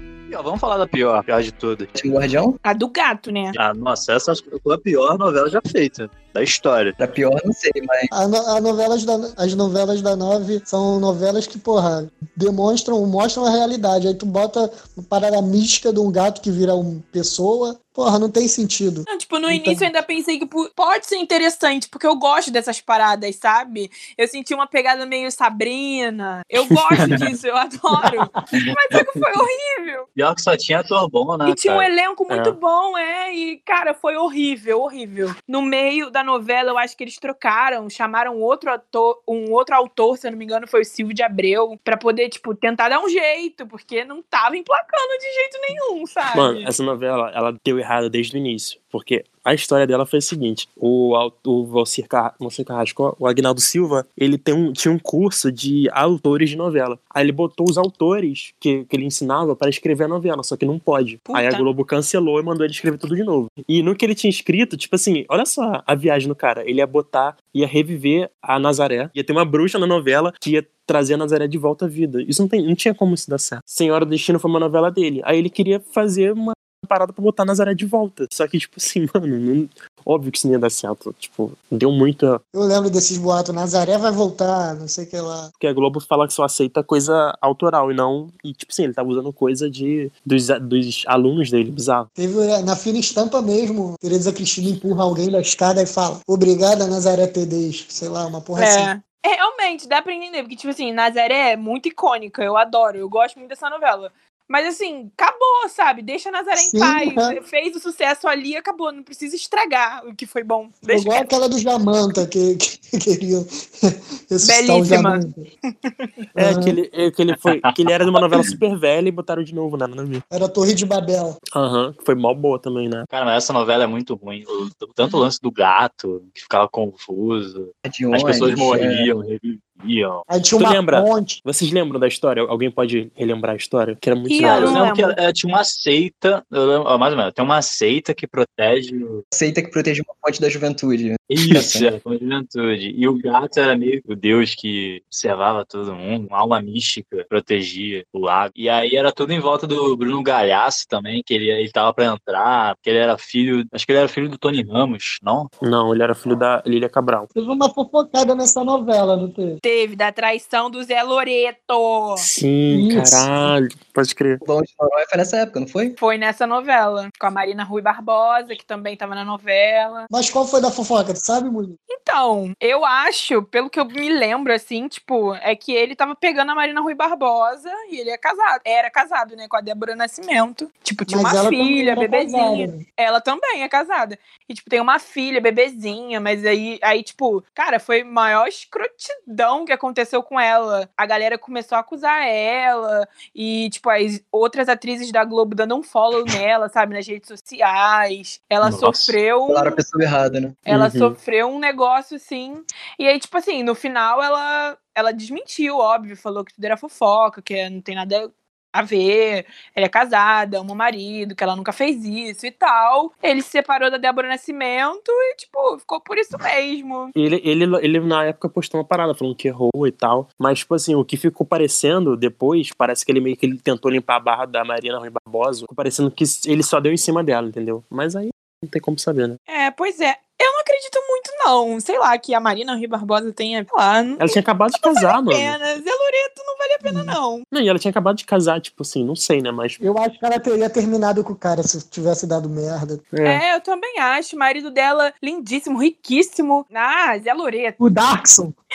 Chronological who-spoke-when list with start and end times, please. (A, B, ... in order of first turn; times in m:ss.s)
0:00.3-0:01.9 A
0:02.0-0:02.6 B
0:02.6-0:03.6 C
0:03.6-0:07.0 A
0:07.0-0:08.1 B
0:08.1-0:19.9 D
0:19.1-0:30.1 C
0:30.2-0:31.9 A
0:31.5-0:46.7 C
0:32.3-0:32.6 E
0:46.3-1:22.4 E
1:01.3-1:01.6 C
1:22.5-1:25.5 D
1:25.6-1:32.1 E
1:32.2-1:38.9 D
1:38.6-1:51.2 C
1:46.6-1:47.4 D
1:50.9-1:55.5 D
1:54.4-1:55.2 C
1:55.8-1:56.1 C
1:56.4-1:56.8 D
1:56.4-2:00.2 E
2:00.3-2:01.4 D
2:01.6-2:03.1 E
2:03.1-2:10.3 A
2:07.8-2:09.1 B
2:10.3-2:11.4 D
2:10.6-2:14.8 E
2:14.3-2:15.2 C
2:14.4-2:19.2 A
2:19.3-2:21.9 B
2:21.3-2:35.5 A
2:35.6-2:37.3 E
2:37.4-2:39.6 D
2:39.6-2:42.3 C
2:42.2-2:44.4 E
2:42.7-2:43.3 D
2:44.4-2:46.0 B
2:46.0-2:50.1 C
2:50.1-2:51.8 D
2:51.9-3:19.8 C
3:01.1-3:02.8 D
3:18.6-3:19.2 A
3:19.5-3:20.6 B
3:20.7-3:37.1 C
3:20.7-3:21.2 E
3:37.2-3:49.4 E
3:49.5-3:57.4 C
3:54.2-3:55.6 E
3:56.8-3:57.2 D
3:57.5-3:59.8 E
3:59.8-4:03.1 D
4:03.1-4:03.4 E
4:03.2-4:07.8 C
4:07.8-4:08.6 D